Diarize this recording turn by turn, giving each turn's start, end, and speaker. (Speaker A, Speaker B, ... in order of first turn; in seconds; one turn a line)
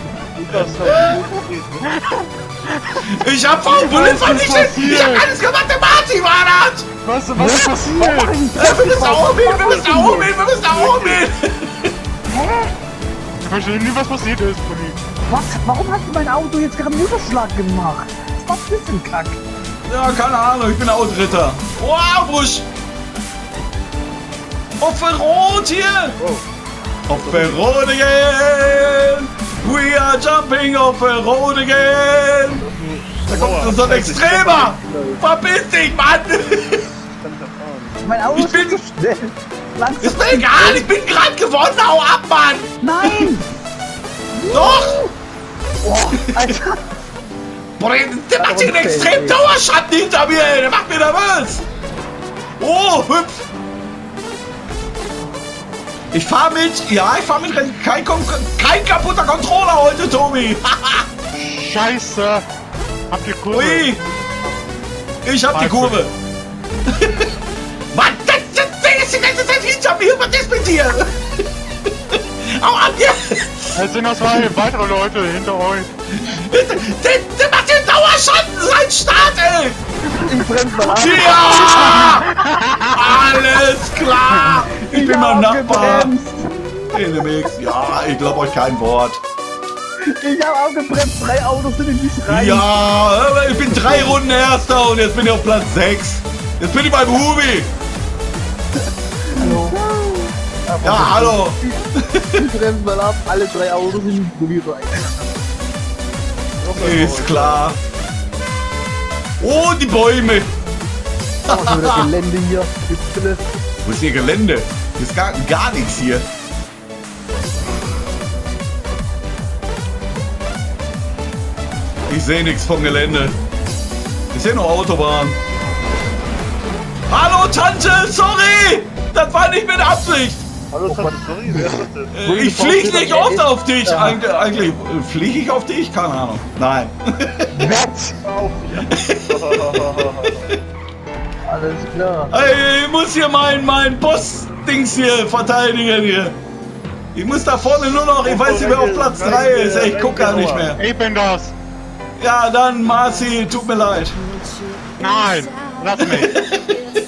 Speaker A: 0.3-1.9
Speaker B: 1.9-3.0
Speaker C: 3.0-6.9
Speaker B: 3.7-5.3
Speaker B: 7.0-8.4
Speaker D: 7.3-10.3
Speaker C: 8.6-11.9
Speaker A: 10.7-11.2
Speaker D: 12.3-12.7
Speaker B: 13.4-15.0
Speaker D: 15.3-19.4
Speaker C: 19.9-22.6
Speaker C: 24.8-26.2
Speaker A: 26.2-26.4
Speaker C: 27.1-32.6
Speaker A: 27.1-27.7
Speaker A: 32.6-35.2
Speaker C: 33.3-36.8
Speaker A: 36.9-38.0
Speaker D: 38.0-40.9
Speaker C: 38.3-38.8
Speaker C: 40.0-43.3
Speaker D: 42.8-43.5
Speaker D: 44.3-45.1
Speaker C: 44.5-45.1
Speaker D: 45.8-46.8
Speaker C: 46.2-46.5
Speaker C: 47.8-51.6
Speaker D: 48.4-49.4
Speaker C: 52.6-53.5
Speaker C: 56.1-61.0
Speaker B: 61.3-62.5
Speaker B: 63.1-64.0
Speaker C: 63.5-64.0
Speaker C: 65.2-66.1
Speaker B: 65.5-66.1
Speaker C: 66.9-67.3
Speaker C: 67.9-73.8
Speaker B: 73.7-75.9
Speaker C: 76.1-79.8
Speaker D: 80.1-82.1
Speaker C: 80.9-82.3
Speaker B: 81.8-83.1
Speaker C: 82.9-86.1
Speaker D: 84.7-87.3
Speaker C: 86.9-89.2
Speaker D: 90.1-92.7
Speaker C: 92.3-97.7
Speaker D: 93.7-94.2
Speaker D: 99.3-105.4
Speaker C: 100.8-102.4
Speaker A: 106.6-107.8
Speaker C: 106.7-107.8
Speaker C: 109.4-110.5
Speaker D: 111.5-113.5
Speaker C: 111.5-112.1
Speaker C: 113.8-116.2
Speaker C: 122.1-123.3
Speaker C: 124.3-125.4
Speaker C: 127.1-130.4
Speaker A: 130.7-132.1
Speaker D: 130.8-134.2
Speaker C: 132.1-137.5
Speaker D: 137.5-138.2
Speaker A: 138.2-140.5
Speaker C: 138.9-139.6
Speaker D: 141.4-142.3
Speaker C: 142.3-146.4
Speaker C: 147.1-150.8
Speaker A: 148.2-150.7
Speaker B: 150.8-151.5
Speaker C: 152.2-154.2
Speaker B: 155.0-156.4
Speaker C: 156.0-156.6